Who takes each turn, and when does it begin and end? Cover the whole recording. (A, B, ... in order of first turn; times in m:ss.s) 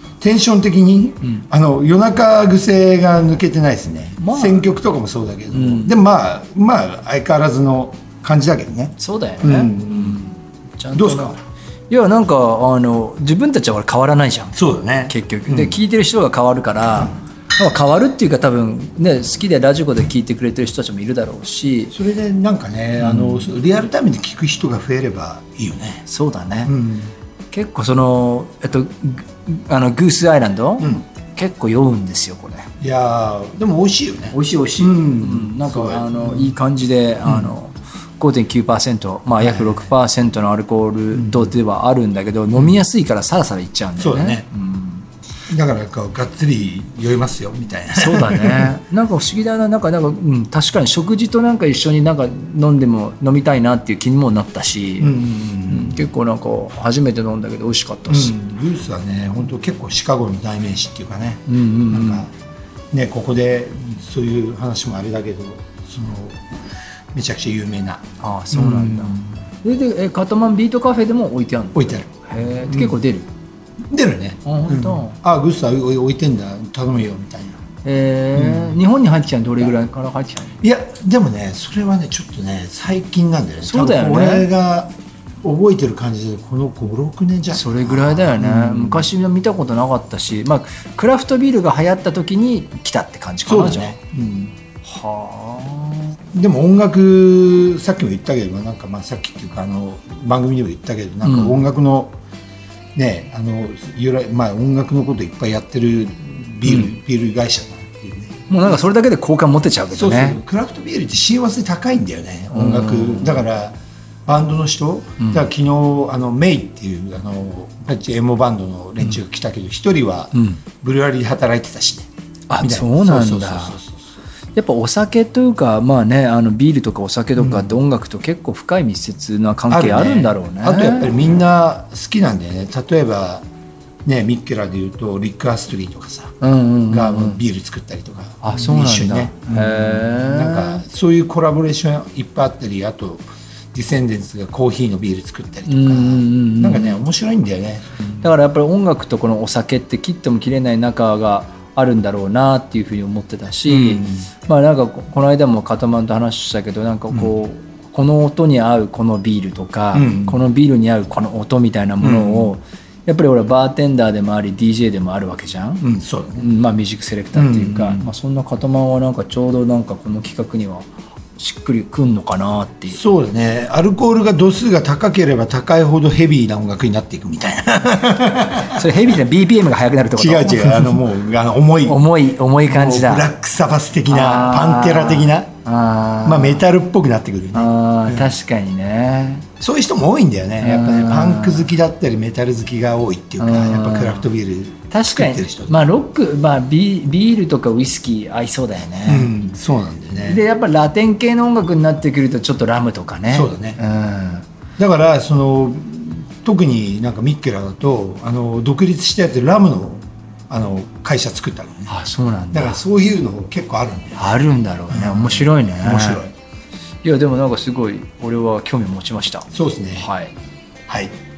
0:00.2-0:10.2 A
0:04.2-0:04.7 B
0:05.5-0:06.0 B
0:09.0-0:11.4 B
0:10.9-0:11.4 A
0:11.9-0:21.9 B
0:14.6-0:15.8 A
0:21.9-0:26.0 A
0:23.0-0:23.5 B
0:26.1-0:26.7 B
0:26.7-0:27.1 A
0:27.5-0:32.7 B
0:32.8-0:36.6 A
0:34.3-0:45.1 B
0:37.2-0:37.5 A
0:39.4-0:39.9 A
0:41.1-0:41.5 A
0:44.0-0:44.5 A
0:45.5-0:48.7 A
0:47.9-0:58.4 B
0:55.0-0:56.0 A
0:58.1-1:02.3 A
1:01.5-1:02.3 B
1:02.9-1:06.5 A
1:07.1-1:09.4 A
1:08.2-1:13.3 B
1:11.8-1:12.1 A
1:12.6-1:13.0 A
1:13.9-1:17.6 A
1:14.4-1:15.2 B
1:17.8-1:20.6 B
1:18.3-1:18.9 A
1:20.6-1:24.9 A
1:23.6-1:24.5 B
1:25.4-1:29.1 A
1:27.5-1:34.0 B
1:33.5-1:34.5 A
1:34.8-1:36.2 B
1:36.3-1:42.2 A
1:41.2-1:41.6 B
1:43.0-1:48.8 A
1:46.6-1:46.9 B
1:48.5-1:50.4 B
1:49.9-2:02.1 A
1:52.5-1:53.4 B
2:00.4-2:00.6 B
2:02.5-2:03.8 B
2:02.6-2:04.0 A
2:04.6-2:11.1 B
2:07.4-2:07.8 A
2:09.7-2:13.5 A
2:14.0-2:16.4 A
2:16.4-2:17.4 B
2:16.9-2:28.3 A
2:18.4-2:20.8 B
2:25.7-2:27.0 B
2:28.2-2:45.8 B
2:33.7-2:34.3 A
2:39.9-2:40.4 A
2:42.0-2:42.5 A
2:45.8-2:46.5 A
2:46.4-2:53.0 B
2:47.3-2:48.1 A
2:52.9-2:59.1 A
2:58.6-3:01.0 B
3:00.2-3:02.0 A
3:01.8-3:03.3 B
3:02.7-3:05.5 A
3:04.1-3:06.6 B
3:06.2-3:08.3 A
3:07.5-3:09.5 B
3:09.6-3:15.8 A
3:10.6-3:11.7 B
3:13.4-3:14.3 B
3:14.9-3:19.3 B
3:19.1-3:20.4 A
3:20.2-3:24.5 B
3:23.3-3:23.8 A
3:24.8-3:31.9 A
3:31.9-3:32.8 B
3:32.5-3:36.3 A
3:34.2-3:36.3 B
3:37.0-3:40.3 B
3:39.5-3:40.1 A
3:40.9-3:41.1 A